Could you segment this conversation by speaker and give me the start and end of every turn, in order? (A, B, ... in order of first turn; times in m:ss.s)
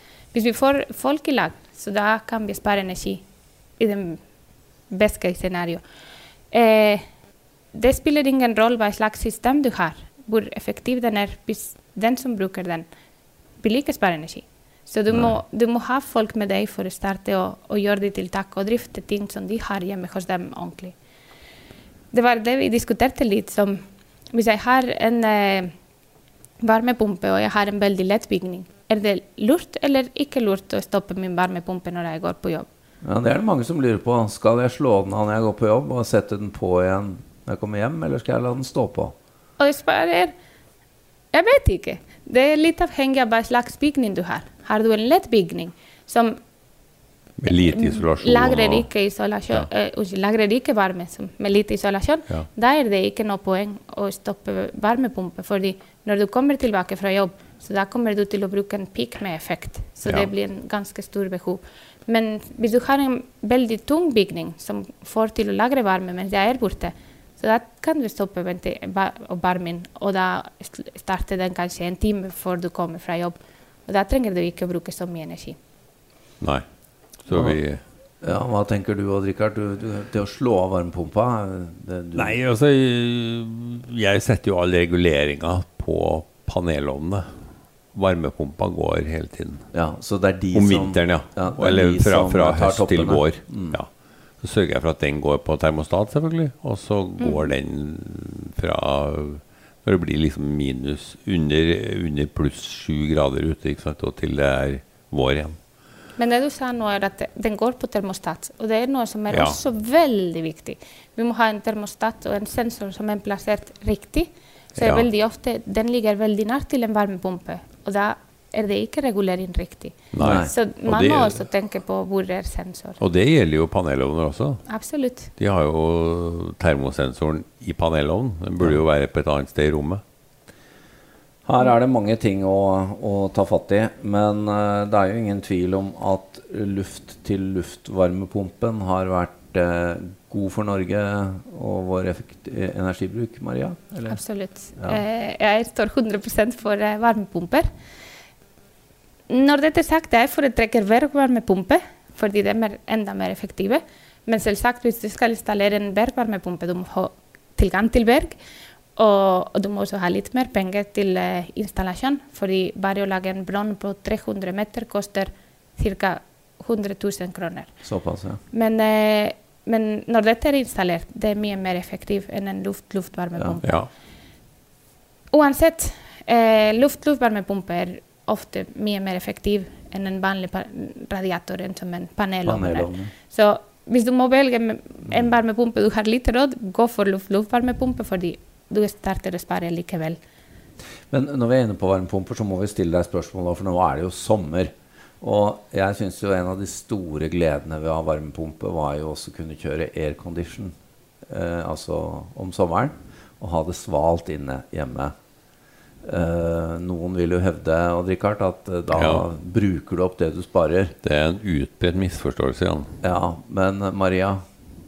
0:00.3-0:03.2 A
0:03.8-0:04.2 A
0:04.9-0:05.8 A
0:06.5-0:07.0 A
0:07.7-0:12.9 A
0:13.6-0:21.0 A
0:22.1-0:23.8 A
0:24.3-0:25.7 A
0:26.6-0:32.7 A
0:33.0-0:39.1 B
0:39.6-0:40.3 A
0:41.3-0:46.4 A
0:47.4-0:48.9 C
0:47.5-1:15.6 A
1:17.3-1:17.8 C
1:17.3-1:17.6 B
1:18.2-1:22.4 B
1:22.2-1:27.3 C
1:27.9-1:29.6 C
1:29.7-1:33.8 B
1:30.5-1:33.9 C
1:34.4-1:45.6 C
1:37.2-1:37.5 A
1:46.2-2:03.0 A
1:49.3-1:49.6 C
1:54.8-1:55.1 C
2:00.1-2:01.4 C
2:00.2-2:00.5 B
2:03.0-2:04.6 C
2:04.7-2:05.3 A
2:05.4-2:10.0 C
2:11.5-2:24.2 B
2:24.1-2:27.7 A
2:24.8-2:25.0 B
2:29.3-2:38.4 A
2:39.0-2:47.8 A
2:47.8-2:48.4 B
2:48.5-2:53.8 A
2:53.6-2:53.9 C
2:55.3-3:10.2 A
3:02.4-3:03.1 B
3:11.1-3:20.7 B
3:21.3-3:25.1 B
3:26.0-3:30.9 B
3:29.0-3:29.2 C
3:31.0-3:32.9 C
3:33.0-3:34.4 B